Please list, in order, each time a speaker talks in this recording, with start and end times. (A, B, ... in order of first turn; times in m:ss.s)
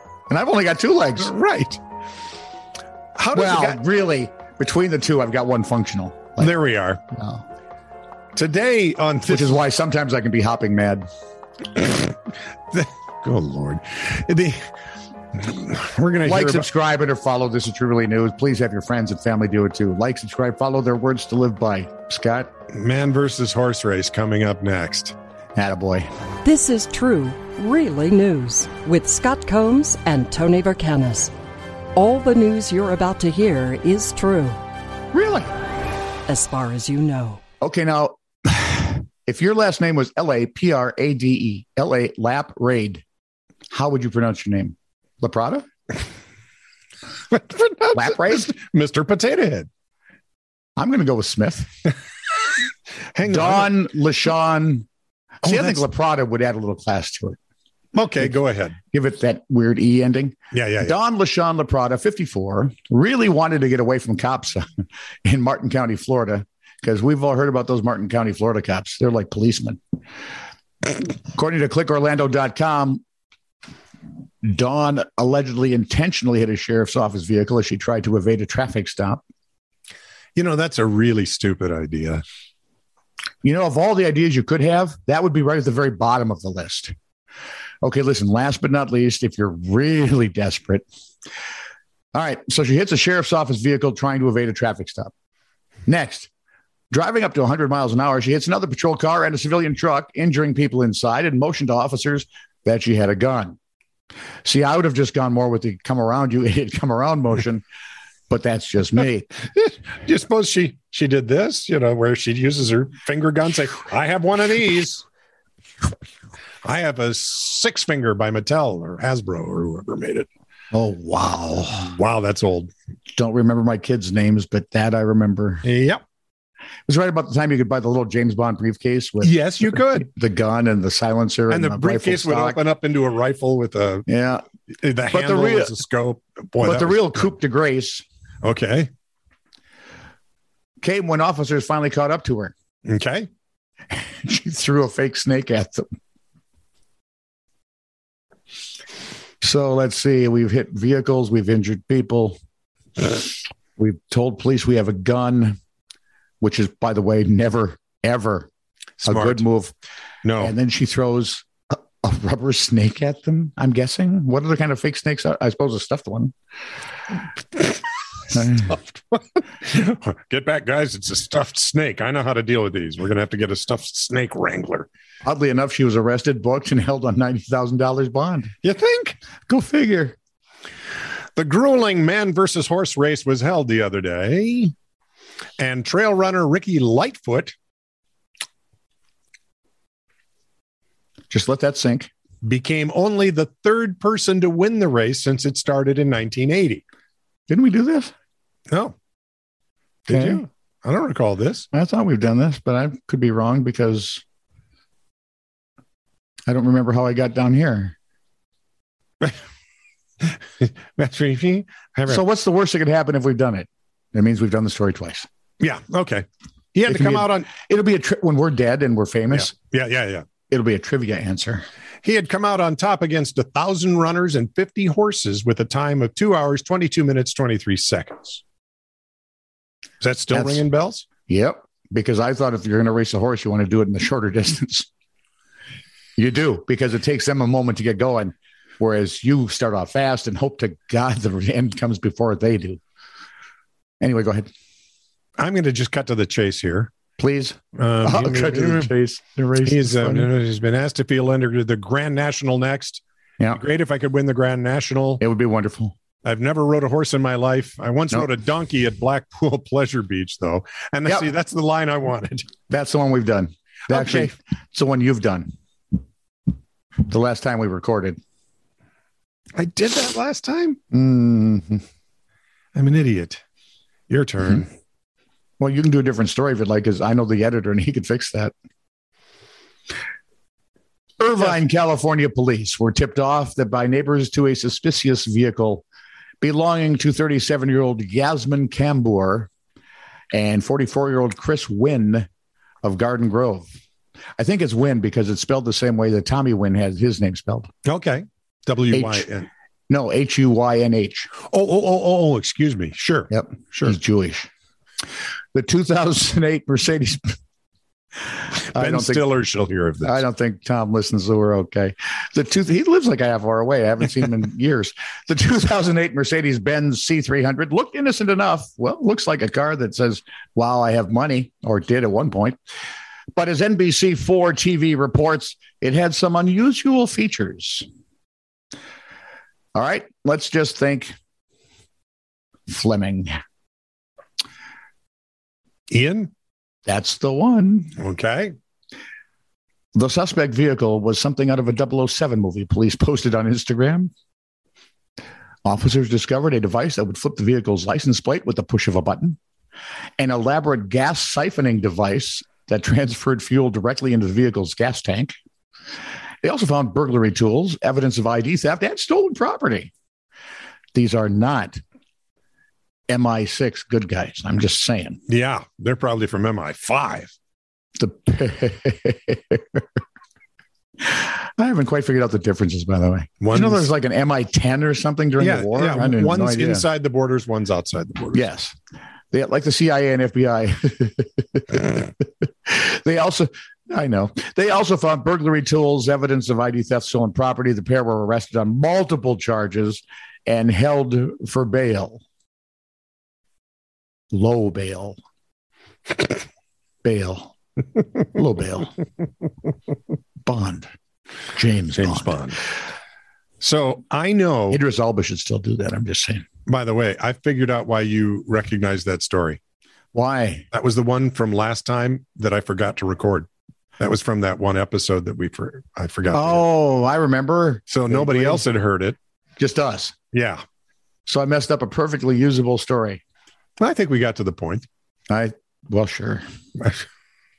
0:00.3-0:01.3 A
0:01.2-0:01.8 B
0:03.2-0:03.8 B
0:03.3-0:06.5 A
0:06.4-0:07.0 B
0:07.1-0:07.4 A
0:08.3-0:09.6 B
0:09.3-0:11.0 A
0:11.8-0:12.1 B
0:12.7-0:14.6 B
0:15.3-0:16.7 B
0:16.2-0:22.5 A
0:22.7-0:25.1 B
0:25.6-0:26.1 A
0:26.4-0:31.3 C
0:31.9-0:34.6 C
0:35.1-0:35.5 A
0:36.3-0:37.4 C
0:37.6-0:43.0 A
0:43.7-0:45.6 A
0:47.3-0:49.7 B
0:47.9-0:48.5 A
0:50.8-0:51.7 A
0:53.1-0:53.7 B
0:53.2-0:54.8 A
0:55.4-0:57.4 A
0:55.4-0:55.8 B
0:57.9-0:58.8 B
0:58.9-1:04.7 A
1:00.5-1:01.0 B
1:05.2-1:09.8 A
1:10.8-1:13.0 A
1:14.4-1:19.2 A
1:20.4-1:22.2 B
1:23.4-1:26.9 A
1:27.8-1:30.8 A
1:32.1-1:35.1 A
1:35.8-1:36.3 A
1:36.9-1:43.6 A
1:44.4-1:47.6 A
1:48.3-1:49.3 A
1:49.5-1:55.0 B
1:56.6-2:00.3 B
2:00.7-2:01.9 A
2:01.7-2:02.7 B
2:03.1-2:05.6 A
2:05.6-2:06.0 B
2:06.9-2:12.6 A
2:09.2-2:10.1 B
2:11.5-2:14.1 B
2:14.1-2:14.4 A
2:14.8-2:17.4 B
2:15.1-2:15.8 A
2:16.6-2:18.0 A
2:18.4-2:18.9 B
2:20.8-2:22.5 A
2:22.8-2:23.3 B
2:23.9-2:25.8 A
2:29.4-2:32.4 A
2:33.8-2:35.6 A
2:36.4-2:38.5 A
2:39.0-2:39.4 B
2:39.0-2:39.7 A
2:40.2-2:40.5 B
2:40.4-2:46.3 A
2:48.3-2:48.7 A
2:48.3-2:54.9 B
2:55.2-2:58.5 A
2:58.6-2:59.2 B
2:59.5-3:00.2 A
3:01.4-3:04.7 B
3:05.6-3:07.5 B
3:11.3-3:12.1 A
3:12.4-3:16.8 B
3:17.5-3:18.1 A
3:18.7-3:18.9 B
3:20.1-3:21.7 B
3:20.1-3:20.4 A
3:21.7-3:24.2 A
3:26.5-3:27.9 A
3:30.2-3:32.2 B
3:32.1-3:35.3 A
3:35.6-3:37.5 B
3:36.9-3:39.5 A
3:39.4-3:40.2 B
3:40.5-3:41.6 A
3:42.0-3:48.4 B
3:50.0-3:51.0 B
3:50.3-3:50.6 A
3:51.3-3:54.9 A
3:56.2-4:02.8 A
4:04.0-4:04.5 A
4:05.4-4:06.9 B
4:07.2-4:10.3 A
4:07.8-4:08.9 B
4:09.6-4:15.2 B
4:15.2-4:15.9 A
4:16.2-4:22.5 B
4:22.7-4:25.5 A
4:23.9-4:24.3 B
4:27.1-4:28.2 A
4:29.5-4:30.8 B
4:30.9-4:31.8 A
4:32.7-4:33.4 B
4:34.1-4:34.7 B
4:35.6-4:38.5 A
4:41.2-4:45.8 A
4:46.4-4:49.5 A
4:50.3-4:52.3 A
4:52.8-4:53.7 A
4:54.4-4:57.7 A
4:57.8-4:59.5 B
4:58.9-4:59.3 A
4:59.9-5:01.3 A
5:01.5-5:04.0 B
5:03.3-5:04.5 A
5:05.5-5:07.4 A
5:08.7-5:10.2 B
5:08.7-5:09.2 A
5:10.0-5:22.6 A
5:23.3-5:27.8 A
5:29.7-5:31.1 A
5:32.7-5:33.4 A
5:35.9-5:36.3 B
5:36.8-5:37.9 A
5:38.0-5:38.5 B
5:39.9-5:44.1 A
5:45.6-5:49.4 A
5:50.2-5:55.3 A
5:56.4-5:59.9 A
6:00.9-6:01.8 A
6:03.1-6:05.2 A
6:05.3-6:07.3 B
6:08.0-6:09.8 A
6:11.0-6:16.8 A
6:13.4-6:13.9 B
6:15.4-6:18.4 B
6:18.3-6:18.7 A
6:19.3-6:32.2 A
6:34.3-6:35.2 A
6:37.0-6:37.5 A
6:38.3-6:38.9 A
6:40.4-6:40.9 A
6:41.5-6:42.5 A
6:42.0-6:42.6 B
6:43.6-6:44.8 B
6:44.7-6:46.4 A
6:46.7-6:49.6 B
6:50.1-6:50.6 A
6:50.7-6:53.5 B
6:54.0-6:56.6 B
6:56.3-6:58.6 A
6:57.9-6:59.2 B
6:59.6-7:00.1 A
7:00.3-7:00.6 B
7:01.3-7:03.2 A
7:03.8-7:04.8 B
7:05.3-7:06.4 A